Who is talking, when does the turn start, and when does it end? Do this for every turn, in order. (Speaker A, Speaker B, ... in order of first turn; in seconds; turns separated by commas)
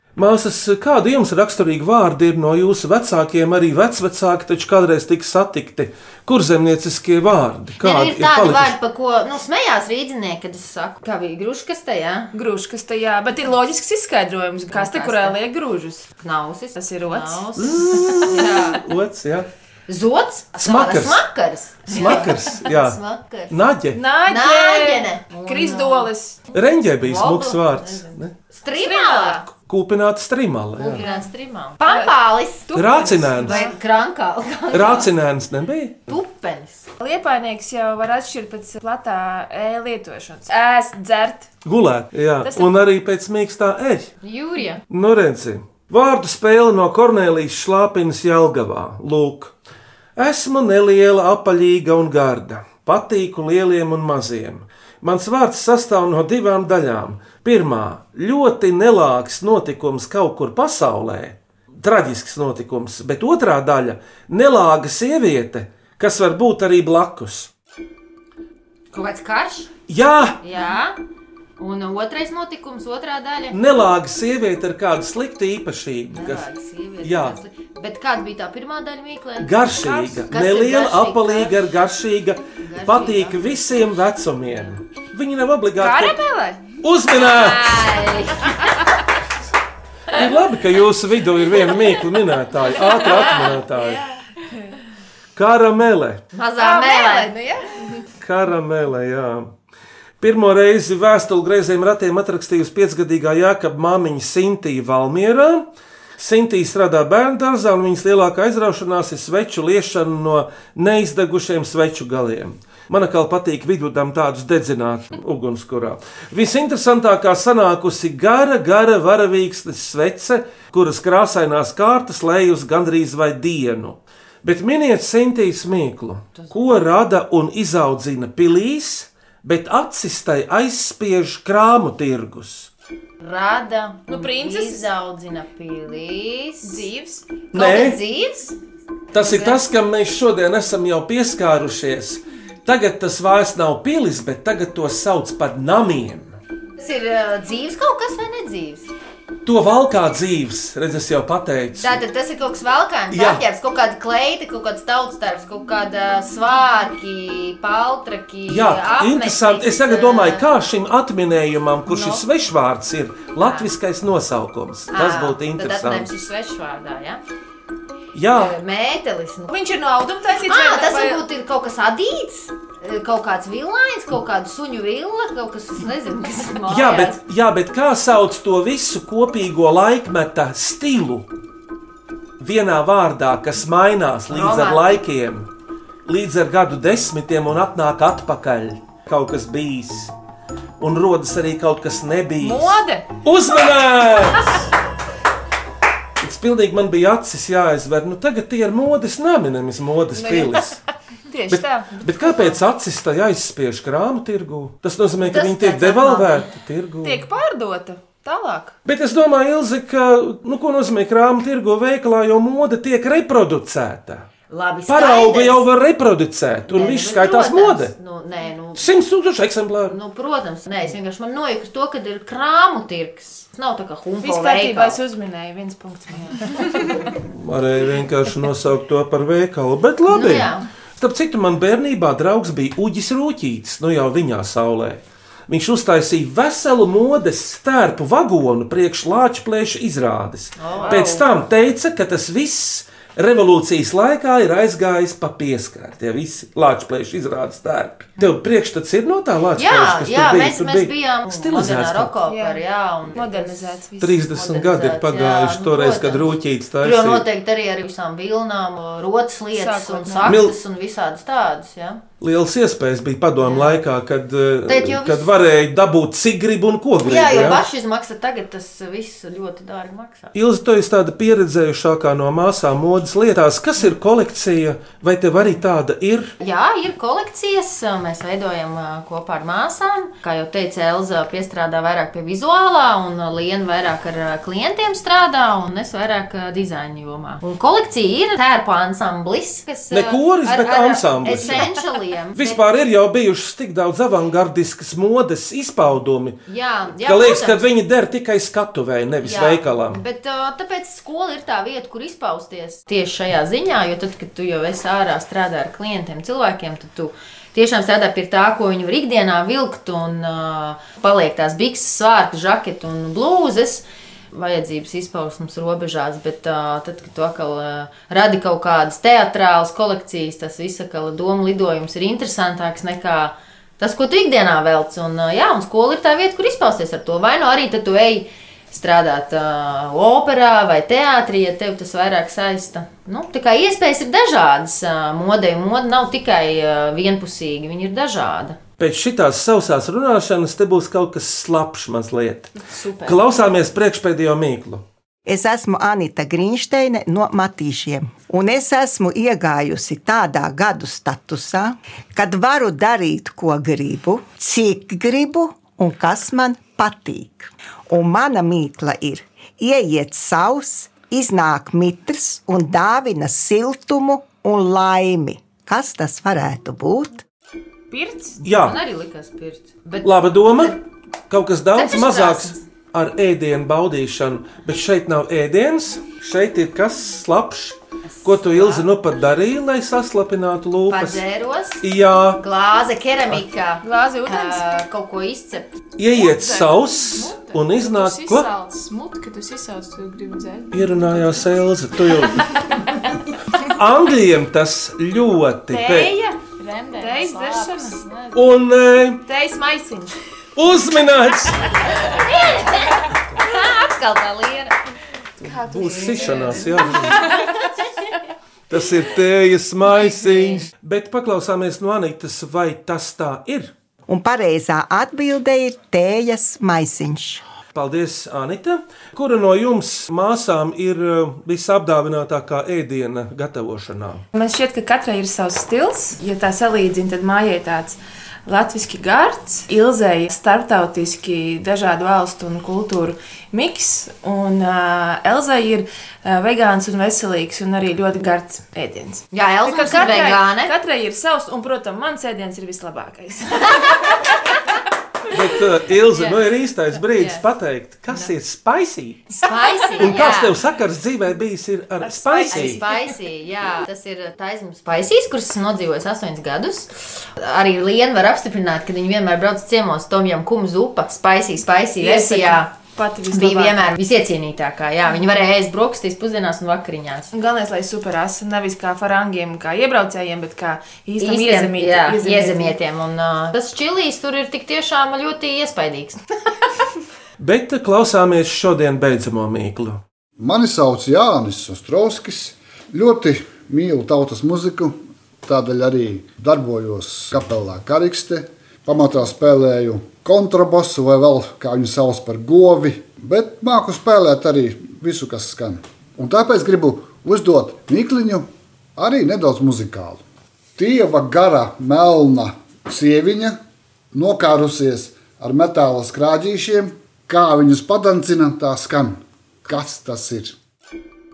Speaker A: 0.1-8.8, Speaker B: 7.8-12.3, Speaker C: 12.3-16.1, Speaker B: 14.7-15.4, Speaker B: 16.2-18.8, Speaker C: 16.8-17.5, Speaker A: 17.6-19.5, Speaker B: 19.9-23.5, Speaker A: 20.6-21.2, Speaker A: 21.9-23.0, Speaker A: 23.5-24.0, Speaker C: 23.9-26.4, Speaker B: 24.3-26.1, Speaker A: 26.5-28.3, Speaker B: 27.0-29.4, Speaker C: 28.7-29.5, Speaker A: 29.5-31.0, Speaker B: 30.8-35.1, Speaker C: 31.8-32.1, Speaker C: 32.7-33.8, Speaker A: 32.7-33.6, Speaker A: 34.7-36.0, Speaker B: 36.1-36.9, Speaker C: 37.0-41.5, Speaker A: 41.6-44.1, Speaker C: 42.4-42.7, Speaker B: 44.2-44.8, Speaker A: 44.9-49.5, Speaker A: 50.1-67.5, Speaker B: 68.9-69.7, Speaker A: 69.9-70.4, Speaker B: 70.4-71.0, Speaker B: 71.6-73.5, Speaker A: 73.5-76.5, Speaker B: 76.1-79.7, Speaker A: 77.0-77.4, Speaker A: 79.4-86.2, Speaker C: 79.8-80.2, Speaker B: 80.3-81.6, Speaker B: 82.6-83.5, Speaker C: 85.8-86.6, Speaker A: 86.8-87.9, Speaker B: 87.1-88.8, Speaker A: 90.1-94.0, Speaker C: 93.0-93.6, Speaker A: 95.3-96.2, Speaker B: 96.3-97.3, Speaker C: 96.6-98.0, Speaker A: 98.2-99.5, Speaker A: 100.2-105.6, Speaker A: 106.2-132.7, Speaker B: 133.2-136.9, Speaker C: 134.1-134.9, Speaker C: 136.6-137.4, Speaker A: 137.5-138.0, Speaker B: 137.5-138.6, Speaker A: 139.1-146.3, Speaker B: 139.1-139.6, Speaker B: 146.8-148.9, Speaker A: 149.4-152.0, Speaker B: 151.8-160.4, Speaker A: 153.1-153.4, Speaker A: 158.5-166.1, Speaker B: 161.9-162.2, Speaker B: 163.4-163.7, Speaker B: 164.9-167.2, Speaker A: 168.1-168.6, Speaker B: 168.3-169.5, Speaker C: 169.5-171.2, Speaker B: 170.5-177.2, Speaker A: 176.7-181.3, Speaker A: 182.4-185.5, Speaker B: 184.3-185.0, Speaker A: 186.0-190.1, Speaker A: 190.8-194.7, Speaker C: 192.4-193.1, Speaker A: 196.2-200.8, Speaker C: 200.1-200.6, Speaker C: 201.3-202.6, Speaker A: 201.5-207.2, Speaker B: 205.2-206.5, Speaker C: 207.0-208.8, Speaker A: 208.8-214.3, Speaker B: 214.5-215.7, Speaker A: 214.9-217.9, Speaker B: 216.7-218.9, Speaker A: 218.8-220.0, Speaker B: 219.9-225.0, Speaker C: 224.2-226.9, Speaker A: 227.1-252.2, Speaker B: 230.1-230.7, Speaker B: 240.6-241.2, Speaker C: 240.8-241.1, Speaker B: 249.6-262.0, Speaker C: 252.2-254.2, Speaker A: 254.0-257.2, Speaker C: 259.5-260.4, Speaker A: 260.2-260.5, Speaker A: 262.2-267.6, Speaker B: 263.4-263.8, Speaker B: 264.7-265.3, Speaker B: 267.0-270.3, Speaker A: 270.3-276.3, Speaker B: 276.4-292.6, Speaker A: 289.9-291.7, Speaker A: 292.3-296.4, Speaker B: 296.5-297.6, Speaker A: 297.0-300.0, Speaker B: 299.2-338.6, Speaker A: 338.8-344.8, Speaker B: 342.6-343.2, Speaker D: 345.2-367.2, Speaker C: 367.9-368.4, Speaker A: 368.4-368.8, Speaker B: 368.5-370.8, Speaker A: 370.0-381.2, Speaker B: 371.8-372.6, Speaker B: 378.1-378.9, Speaker B: 380.9-381.8, Speaker A: 381.8-382.4, Speaker B: 382.4-385.8, Speaker C: 383.8-384.6, Speaker A: 386.0-388.5, Speaker E: 386.2-391.5, Speaker A: 390.7-392.9, Speaker A: 393.6-396.1, Speaker C: 395.7-396.4, Speaker E: 396.6-398.4, Speaker C: 397.0-398.0, Speaker A: 398.3-399.2, Speaker C: 399.2-400.2, Speaker A: 400.6-401.9, Speaker B: 402.0-404.7, Speaker A: 405.4-407.5, Speaker C: 405.4-407.1, Speaker A: 408.7-413.7, Speaker D: 414.1-417.4, Speaker A: 417.7-424.2, Speaker C: 424.3-444.3, Speaker B: 439.3-440.7, Speaker A: 445.3-449.3, Speaker B: 446.1-446.4, Speaker B: 447.0-447.4, Speaker B: 449.3-450.6, Speaker A: 450.0-452.8, Speaker C: 452.0-453.1, Speaker B: 452.5-462.7, Speaker C: 462.0-463.9, Speaker B: 463.3-467.3, Speaker C: 467.3-472.8, Speaker B: 471.2-476.2, Speaker A: 477.4-480.0, Speaker F: 480.4-500.2, Speaker F: 500.8-503.6, Speaker F: 504.1-510.6